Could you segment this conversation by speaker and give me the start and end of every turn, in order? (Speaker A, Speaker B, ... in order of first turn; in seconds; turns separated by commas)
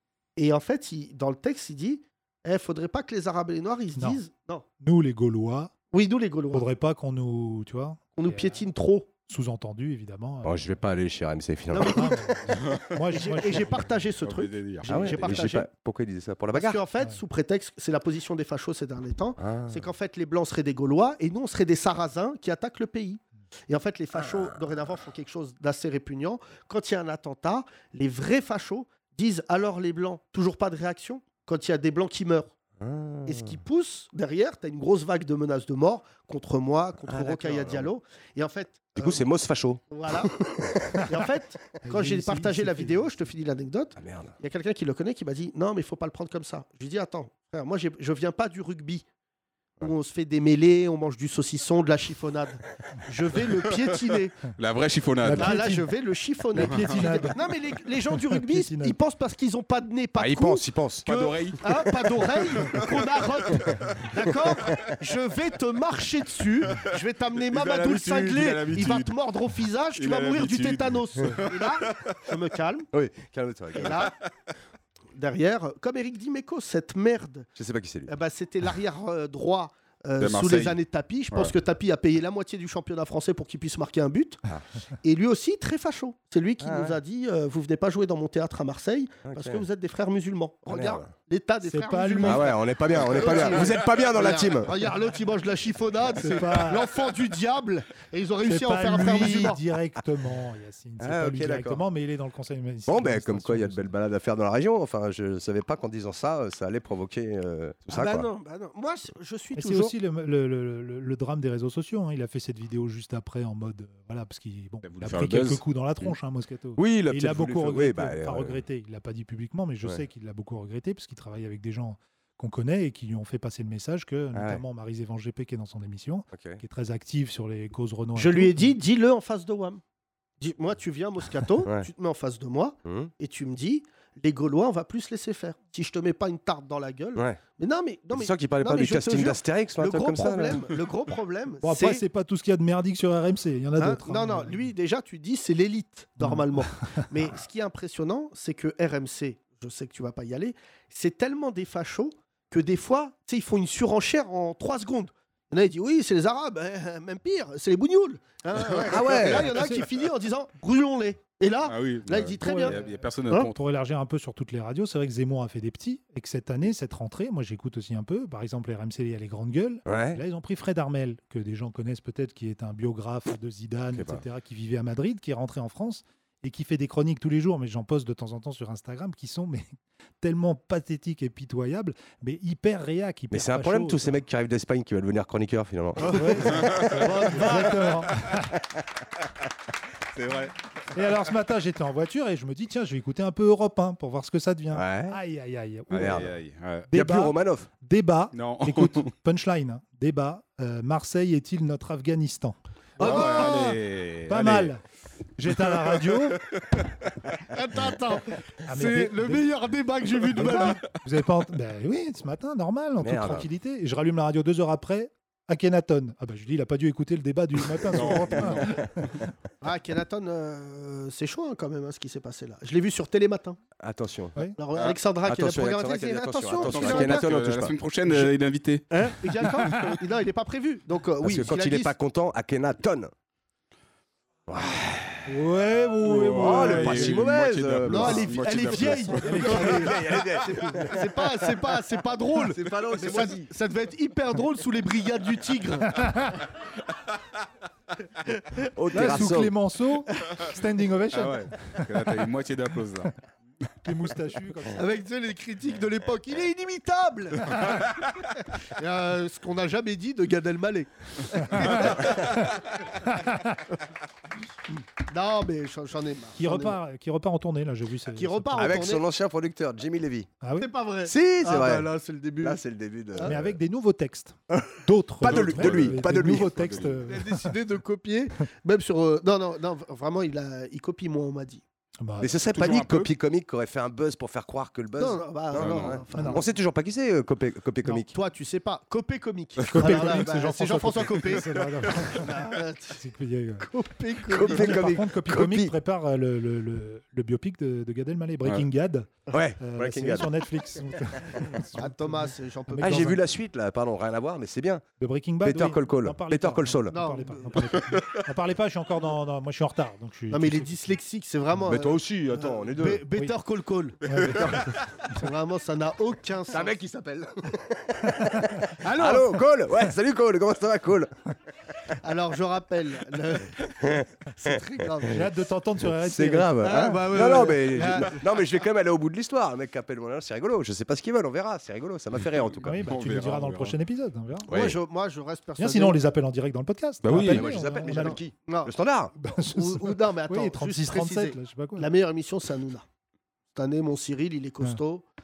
Speaker A: 0.4-4.7, Speaker B: 4.8-5.7, Speaker A: 5.9-6.7, Speaker B: 6.5-8.7, Speaker A: 8.2-9.1, Speaker B: 9.3-10.7, Speaker C: 10.4-12.1, Speaker A: 11.7-15.7, Speaker B: 11.9-14.0, Speaker D: 14.2-15.3, Speaker C: 14.9-16.8, Speaker B: 15.0-15.4, Speaker A: 16.5-32.5, Speaker C: 19.4-19.9, Speaker C: 32.8-33.6, Speaker A: 33.3-39.2, Speaker C: 37.1-37.9, Speaker C: 39.0-39.8, Speaker A: 39.9-49.0, Speaker B: 41.8-42.9, Speaker C: 44.0-44.4, Speaker A: 49.8-54.4, Speaker D: 54.6-55.6, Speaker B: 55.2-55.9, Speaker A: 55.3-72.9, Speaker B: 56.5-57.4, Speaker D: 56.6-56.9, Speaker B: 58.1-59.0, Speaker C: 60.2-61.1, Speaker D: 61.0-61.6, Speaker D: 62.4-63.0, Speaker D: 67.4-69.1, Speaker D: 70.0-72.2, Speaker C: 72.9-74.0, Speaker A: 73.8-74.1, Speaker A: 75.2-77.5, Speaker C: 77.6-78.1, Speaker A: 78.1-84.4, Speaker D: 80.2-80.8, Speaker A: 85.0-99.6, Speaker C: 86.6-87.0, Speaker C: 89.2-89.7, Speaker C: 90.7-91.1, Speaker B: 91.6-92.5, Speaker C: 92.2-94.7, Speaker B: 96.2-96.9, Speaker B: 98.4-103.9, Speaker C: 101.0-101.8, Speaker C: 102.9-108.3, Speaker A: 107.9-109.9, Speaker B: 109.5-128.8, Speaker D: 114.8-116.1, Speaker C: 116.8-118.6, Speaker C: 124.3-124.6, Speaker C: 126.3-126.6, Speaker A: 128.2-129.8, Speaker A: 130.4-142.0, Speaker C: 131.6-131.9, Speaker C: 132.8-133.1, Speaker C: 137.2-137.4, Speaker C: 138.1-140.6, Speaker B: 141.6-144.7, Speaker A: 143.8-162.8, Speaker B: 146.2-146.6, Speaker C: 158.9-159.5, Speaker B: 159.2-159.9, Speaker D: 161.7-163.5, Speaker B: 162.4-184.2, Speaker C: 169.9-170.2, Speaker C: 173.9-174.2, Speaker C: 183.3-186.2, Speaker A: 186.0-188.0, Speaker B: 186.0-188.5, Speaker D: 186.6-186.8, Speaker D: 190.2-190.6, Speaker B: 190.9-196.3, Speaker C: 194.7-195.2, Speaker D: 195.9-196.9, Speaker C: 195.9-196.3, Speaker B: 196.9-204.8, Speaker C: 196.9-197.7, Speaker D: 198.3-199.1, Speaker A: 203.0-203.6, Speaker D: 203.0-204.7, Speaker B: 205.4-206.4, Speaker A: 207.5-210.8, Speaker B: 208.7-209.5, Speaker B: 210.4-219.3, Speaker C: 213.0-213.5, Speaker D: 217.9-218.8, Speaker A: 219.6-223.6, Speaker C: 223.8-224.4, Speaker A: 224.6-227.3, Speaker C: 225.2-227.8, Speaker D: 226.6-228.9, Speaker A: 228.9-231.9, Speaker B: 229.4-229.9, Speaker C: 231.2-233.1, Speaker C: 234.5-235.3, Speaker B: 235.3-237.3, Speaker D: 236.0-239.9, Speaker C: 236.4-238.3, Speaker A: 237.9-246.1, Speaker B: 239.2-239.9, Speaker C: 239.6-241.0, Speaker C: 242.5-243.5, Speaker B: 246.0-246.3, Speaker A: 248.3-249.2, Speaker C: 248.8-249.5, Speaker B: 248.9-252.1, Speaker D: 251.1-253.2, Speaker B: 253.8-254.8, Speaker A: 254.8-257.8, Speaker A: 258.8-262.6, Speaker B: 261.6-261.8, Speaker B: 263.1-263.5, Speaker A: 265.1-266.8, Speaker B: 266.4-268.8, Speaker A: 268.1-269.0, Speaker C: 268.6-270.4, Speaker B: 270.4-270.7, Speaker A: 270.6-272.6, Speaker C: 271.1-271.9, Speaker C: 272.4-273.4, Speaker A: 273.1-273.5, Speaker B: 273.2-277.6, Speaker C: 275.2-276.5, Speaker D: 275.2-277.0, Speaker A: 277.1-281.6, Speaker B: 282.0-282.4, Speaker C: 282.2-288.1, Speaker D: 282.5-283.1, Speaker A: 282.6-282.9, Speaker A: 285.0-286.5, Speaker D: 285.5-286.0, Speaker B: 286.1-286.4, Speaker A: 288.0-293.0, Speaker B: 289.7-293.7, Speaker A: 293.6-295.0, Speaker C: 294.3-295.8, Speaker B: 294.4-303.2, Speaker C: 299.3-300.3, Speaker A: 301.8-303.2, Speaker C: 302.8-304.8, Speaker B: 305.0-310.9, Speaker C: 305.4-307.0, Speaker A: 306.9-307.8, Speaker A: 310.3-316.8, Speaker C: 311.6-313.0, Speaker B: 314.1-314.7, Speaker C: 316.5-317.3, Speaker B: 318.3-318.6, Speaker A: 318.8-319.4, Speaker C: 318.9-321.1, Speaker A: 322.0-325.3, Speaker B: 325.1-326.8, Speaker C: 326.0-332.8, Speaker A: 326.6-328.2, Speaker B: 332.6-334.6, Speaker D: 332.6-333.8, Speaker C: 334.5-334.8, Speaker A: 334.5-336.0, Speaker B: 335.6-338.2, Speaker D: 337.0-337.6, Speaker C: 337.2-339.1, Speaker A: 337.8-342.9, Speaker B: 339.2-341.9, Speaker A: 343.5-345.1